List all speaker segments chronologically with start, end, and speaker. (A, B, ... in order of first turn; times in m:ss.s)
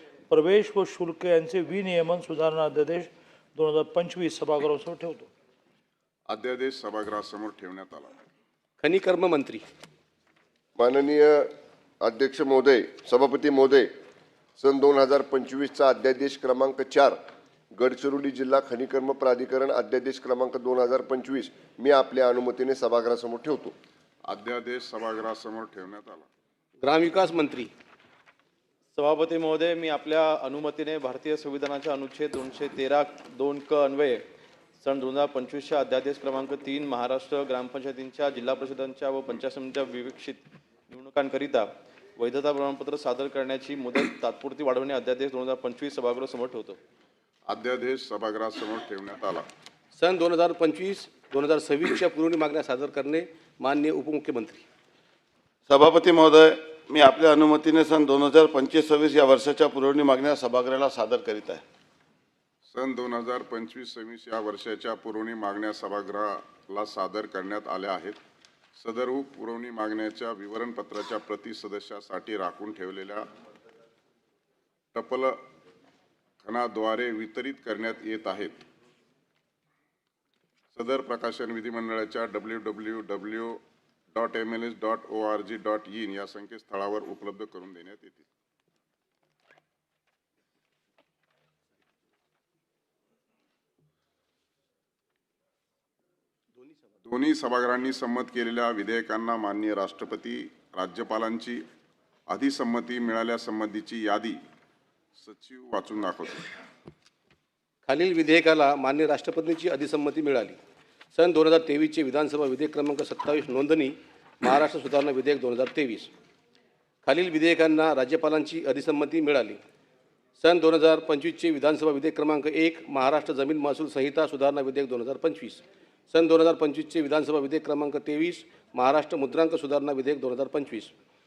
0:00.3-0:05.3 A
0:06.3-0:08.1 B
0:08.8-0:09.6 C
0:10.8-0:11.5 D
0:12.0-0:13.9 D
0:14.6-0:17.2 D
0:17.7-0:23.7 D
0:24.3-0:26.3 B
0:26.8-0:27.7 C
0:28.9-0:34.2 E
0:34.8-0:46.8 E
0:47.5-0:49.4 B
0:50.0-0:54.6 C
0:55.7-1:01.6 F
1:02.7-1:08.2 B
1:08.8-1:13.2 B
1:14.9-1:15.4 B
1:16.4-1:18.6 B
1:20.7-1:23.6 B
1:24.1-1:28.2 B
1:37.0-1:41.6 B
1:42.3-1:44.4 B
1:45.2-1:46.4 B
1:47.9-1:50.6 C
1:51.1-1:56.1 C
1:57.0-1:59.6 C
2:00.4-2:10.9 C